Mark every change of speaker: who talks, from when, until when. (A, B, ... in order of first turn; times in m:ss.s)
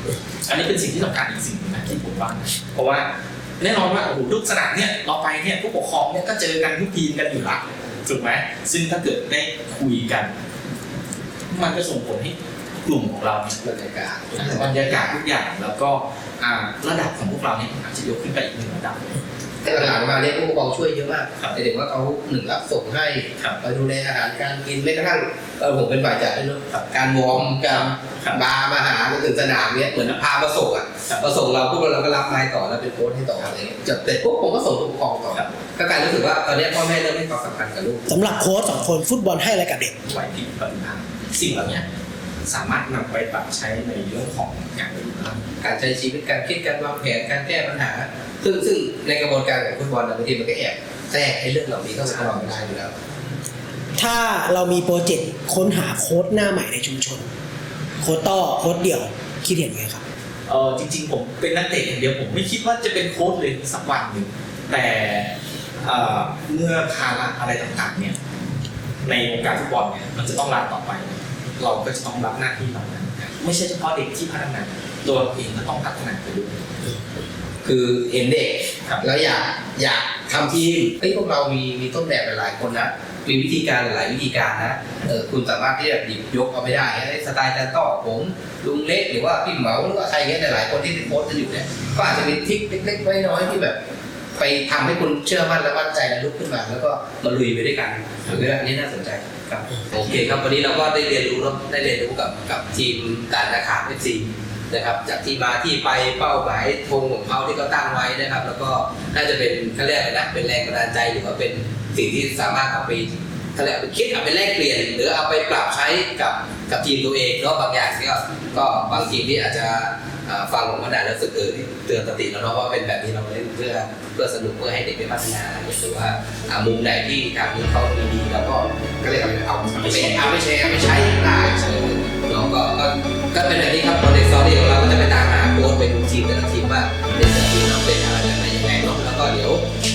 0:00.4-0:10.3 A
0:11.5-0:13.6 A
0:13.6-0:15.1 B
0:14.4-0:19.2 A
0:19.6-0:38.0 B
0:27.7-0:28.4 A
0:35.3-0:35.6 A
0:38.1-0:40.0 C
0:40.0-0:41.8 A
0:42.4-0:45.4 A
0:45.6-0:52.9 B
0:54.0-0:57.3 C
0:58.0-1:00.0 C
1:00.5-1:08.2 A
1:09.0-1:16.9 A
1:17.6-1:33.8 B
1:34.4-2:19.6 B
2:09.8-2:10.3 A